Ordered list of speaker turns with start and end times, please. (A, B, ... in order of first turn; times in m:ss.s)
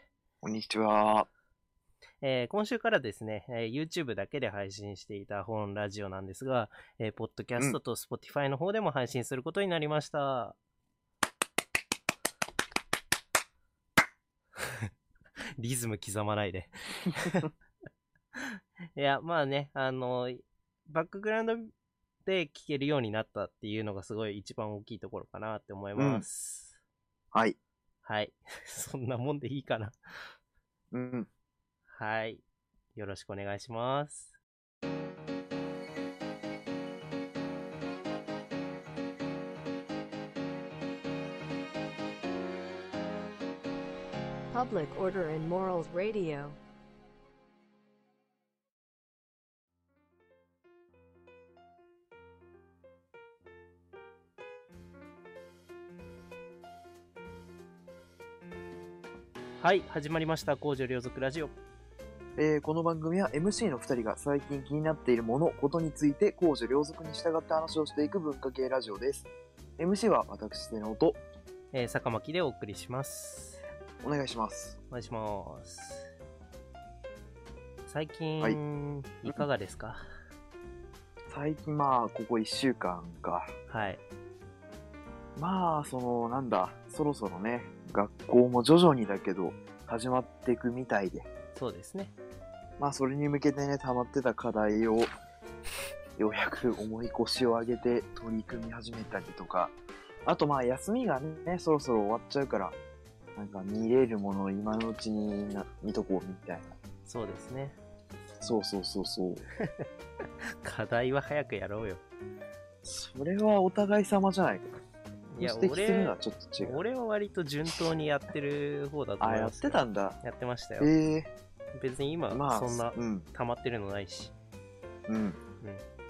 0:00.4-0:01.3 A
0:02.2-0:10.6 B
0:15.6-0:17.5 B
0:18.4-0:21.7 B
0:22.2-0:26.8 B
0:26.0-0:26.2 A
0:28.0-0:30.0 B
0:30.9-0:31.3 A
0:31.9-0:32.4 B
0:32.9-0:34.3 B
0:44.5-0:46.6 C
0:59.6-1:01.5 B
1:02.4-1:11.2 A
1:11.7-1:13.6 B
1:14.0-1:14.8 A
1:14.9-1:16.1 B
1:17.8-1:20.0 B
1:21.3-1:23.5 A
1:23.7-1:24.0 B
1:25.4-1:31.3 A
1:31.5-1:32.1 B
1:32.8-1:35.1 A
1:36.2-1:42.8 A
1:43.4-1:46.7 A
1:47.0-1:47.8 B
1:48.4-1:49.4 A
1:50.6-1:52.0 B
1:52.8-1:54.7 A
1:55.3-2:00.9 B
1:55.4-1:56.8 A
1:59.2-2:00.2 A
2:00.8-2:01.3 A
2:01.7-2:04.3 B
2:02.3-2:03.2 A
2:05.1-2:05.4 A